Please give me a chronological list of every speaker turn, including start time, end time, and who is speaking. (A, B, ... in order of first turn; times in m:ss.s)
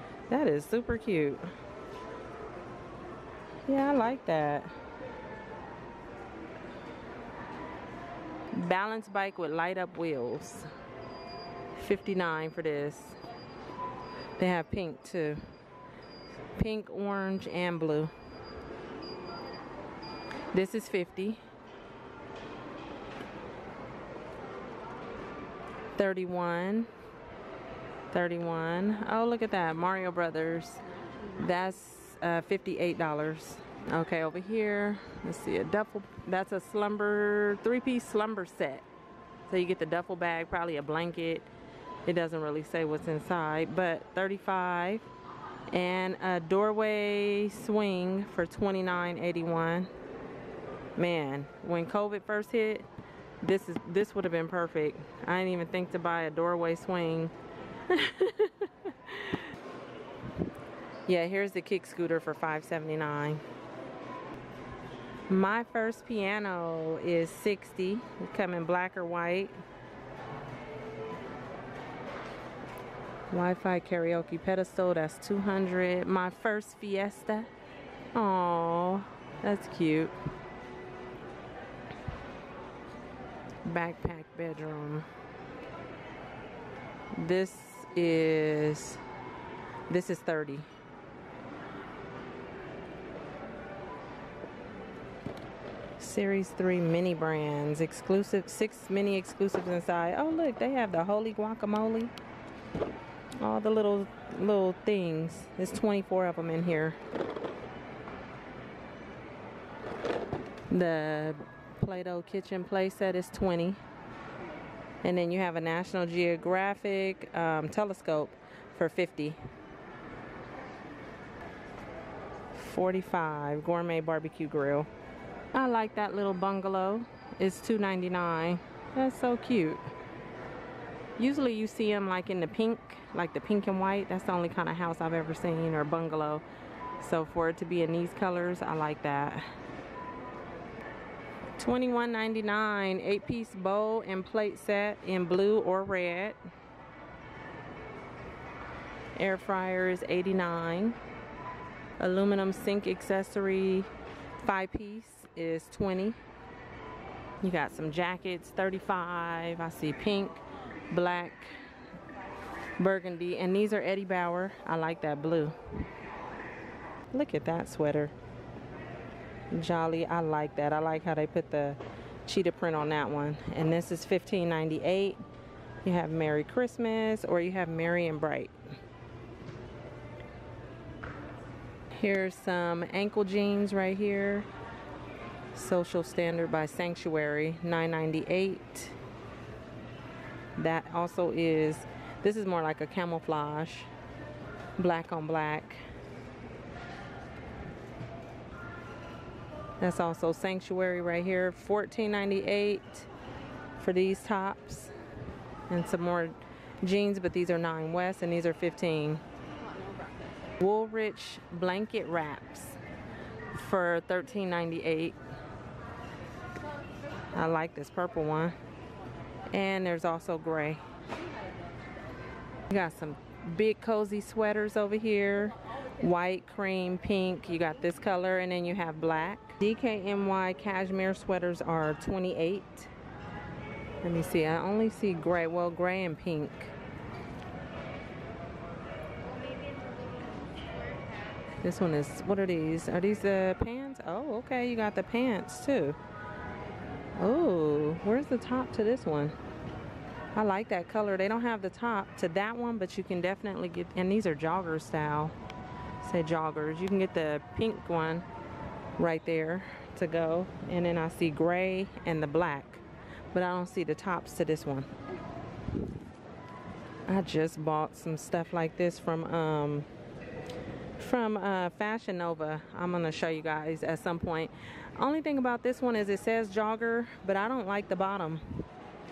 0:00.3-0:01.5 A
0:03.7-0:04.7 A
0:08.5-0:10.7 A
0:11.8-0:13.2 A
0:14.4-0:15.4 A
0:16.6-0:18.1 A
0:20.5-0:21.4 A
0:26.0-0:26.9 A
0:28.1-0:30.8 A
0:31.4-0:38.8 A
0:39.5-0:41.5 A
0:42.0-0:45.1 A
0:45.7-0:49.9 A
0:51.0-0:52.9 A
0:53.4-0:57.3 A
0:57.9-0:59.5 A
1:01.1-1:03.4 A
1:05.3-1:09.6 A
1:13.3-1:17.5 A
1:18.1-1:20.1 A
1:23.6-1:25.1 A
1:27.2-1:29.0 A
1:29.9-1:30.7 A
1:36.0-1:42.1 A
1:43.4-1:47.0 A
1:50.7-1:53.8 A
1:55.0-1:59.4 A
2:02.5-2:04.9 A
2:05.5-2:09.8 A
2:11.2-2:16.4 A
2:17.0-2:19.4 A
2:21.6-2:26.4 A
2:29.2-2:31.0 A
2:32.0-2:33.9 A
2:34.4-2:36.2 A
2:37.4-2:41.6 A
2:42.8-2:45.6 A
2:47.1-2:48.1 A
2:49.5-2:55.2 A
2:55.8-2:58.5 A
3:02.0-3:04.5 A
3:05.5-3:09.0 A
3:10.6-3:13.9 A
3:14.8-3:15.8 A
3:19.8-3:23.1 A
3:23.8-3:24.9 A
3:25.7-3:29.2 A
3:30.6-3:32.8 A
3:33.5-3:35.2 A
3:37.3-3:38.6 A
3:39.5-3:40.8 A
3:42.7-3:52.9 A
3:54.0-3:56.7 A
4:01.6-4:06.0 A
4:07.2-4:09.4 A
4:10.4-4:15.4 A
4:16.0-4:18.3 A
4:19.0-4:24.9 A
4:27.1-4:29.9 A
4:31.0-4:38.7 A